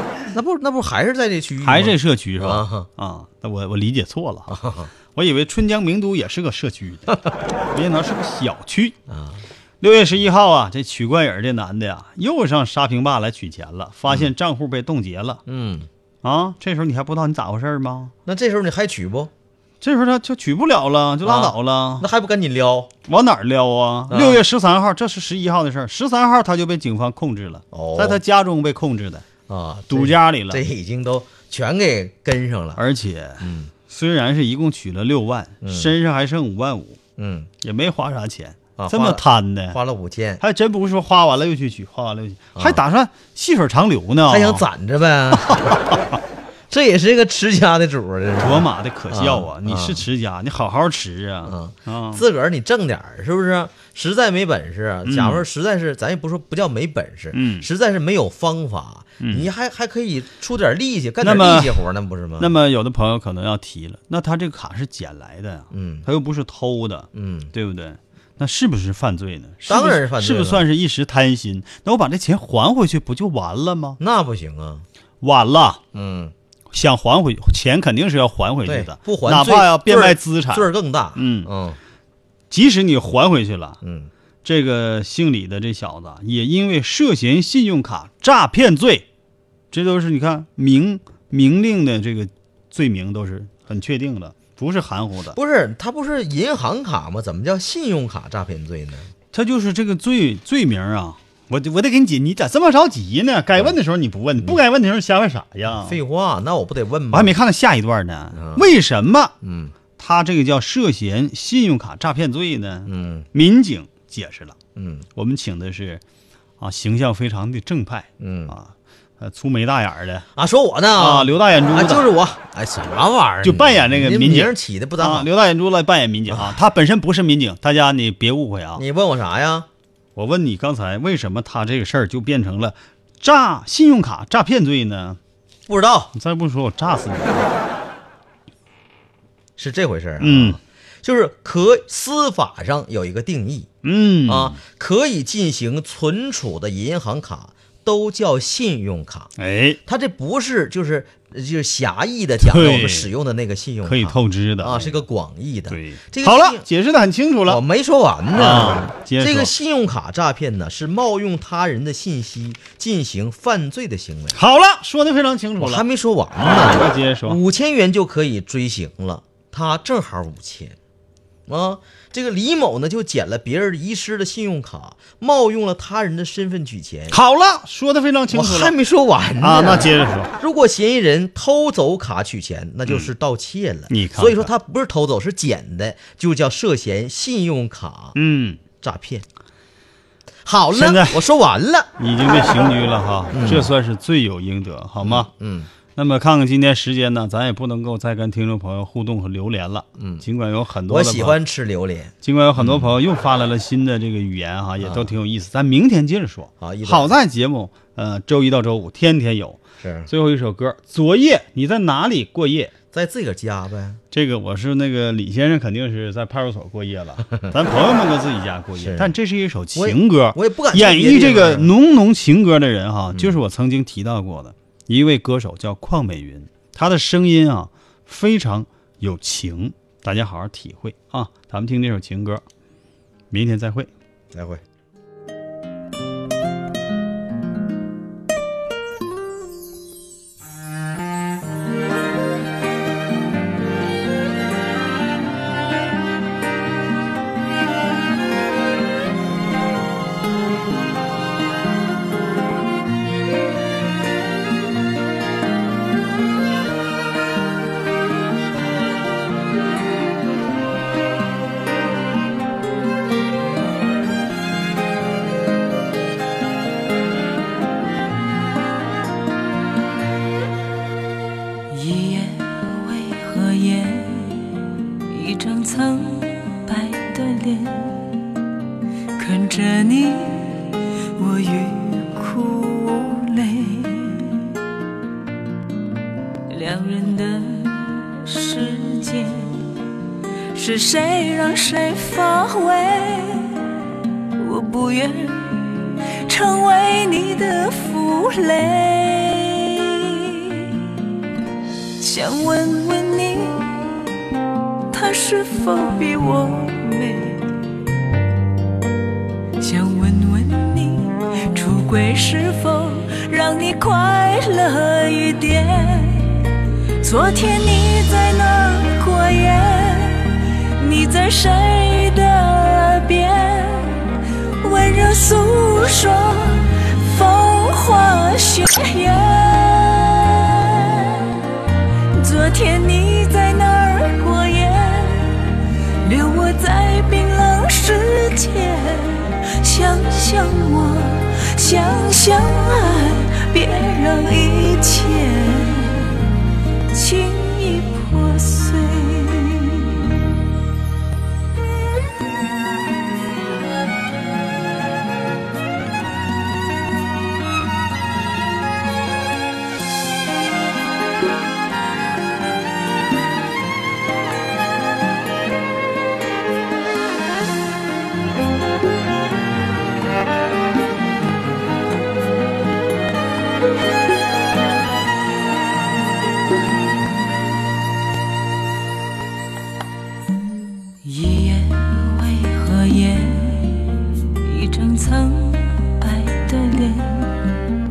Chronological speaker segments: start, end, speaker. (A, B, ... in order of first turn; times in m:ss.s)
0:00.3-0:02.9 A
0:01.6-0:04.6 B
0:04.5-0:04.9 A
0:05.1-0:09.0 B
0:09.1-0:09.4 A
0:09.8-0:15.4 B
0:15.4-0:15.9 A
0:16.2-0:18.1 B
0:18.2-0:19.3 A
0:19.8-0:22.1 B
0:21.2-0:22.9 A
0:23.1-0:29.2 B
0:24.1-0:24.4 A
0:27.7-0:28.2 A
0:29.5-0:32.8 A
0:29.9-0:30.6 B
0:32.8-0:37.0 B
0:33.4-0:33.7 A
0:35.6-0:35.9 A
0:37.2-0:37.5 A
0:37.6-0:39.8 B
0:38.8-0:40.4 A
0:40.4-0:44.6 B
0:42.6-0:42.8 A
0:44.3-0:45.9 A
0:46.7-0:50.0 A
0:48.4-0:52.2 B
0:51.4-1:02.5 A
0:55.0-0:55.4 B
0:57.3-0:57.7 B
0:59.2-0:59.5 B
1:01.2-1:01.8 B
1:02.4-1:14.0 B
1:05.7-1:06.1 A
1:07.1-1:07.5 A
1:09.7-1:10.6 A
1:14.0-1:14.8 A
1:15.2-1:15.8 B
1:15.9-1:16.3 A
1:16.7-1:21.5 B
1:18.6-1:21.8 A
1:22.5-1:23.8 B
1:23.8-1:24.1 A
1:24.4-1:29.0 B
1:29.7-1:35.4 B
1:35.3-1:39.1 A
1:39.3-1:46.0 B
1:45.7-1:47.4 A
1:47.1-1:49.3 B
1:48.3-1:48.7 A
1:49.4-1:49.7 A
1:50.0-1:54.6 B
1:52.8-1:53.3 A
1:54.7-1:55.0 A
1:55.2-1:56.0 B
1:56.6-2:00.2 B
1:58.2-1:58.5 A
2:00.3-2:05.3 A
2:01.0-2:02.1 B
2:03.4-2:08.8 B
2:06.3-2:06.6 A
2:08.8-2:09.7 A
2:10.2-2:15.2 B
2:15.7-2:16.1 A
2:16.1-2:17.4 B
2:19.6-2:23.7 A
2:20.2-2:20.6 B
2:23.8-2:24.6 B
2:24.2-2:29.3 A
2:29.4-2:29.8 B
2:29.8-2:36.7 A
2:32.4-2:33.1 B
2:33.8-2:35.0 B
2:35.7-2:37.6 B
2:37.4-2:44.4 A
2:38.3-2:39.5 B
2:44.3-2:45.8 B
2:45.6-2:50.8 A
2:46.4-2:47.4 B
2:51.5-2:57.2 A
2:57.1-2:58.7 B
2:58.3-3:08.2 A
2:59.4-3:00.3 B
3:03.9-3:04.5 B
3:08.1-3:08.6 B
3:08.8-3:09.2 A
3:10.4-3:11.9 A
3:10.7-3:11.2 B
3:12.0-3:15.3 B
3:13.3-3:13.7 A
3:15.0-3:15.7 A
3:15.9-3:21.4 B
3:20.0-3:20.2 A
3:20.9-3:22.9 A
3:22.2-3:32.7 B
3:24.8-3:25.1 A
3:26.6-3:27.2 A
3:29.8-3:30.1 A
3:32.9-3:34.0 A
3:34.1-3:52.4 B
3:38.8-3:39.1 A
3:39.7-3:41.7 A
3:53.3-3:53.9 B
3:54.3-3:54.6 A
4:31.7-4:38.2 C
4:39.2-4:44.5 C
4:46.5-4:49.7 C
4:50.5-4:53.7 C
4:54.4-5:00.9 C
5:02.0-5:04.0 C
5:04.9-5:07.5 C
5:09.6-5:31.3 C
5:32.1-5:35.4 C
5:36.0-5:46.3 C
5:46.9-5:50.0 C
6:21.0-6:27.4 C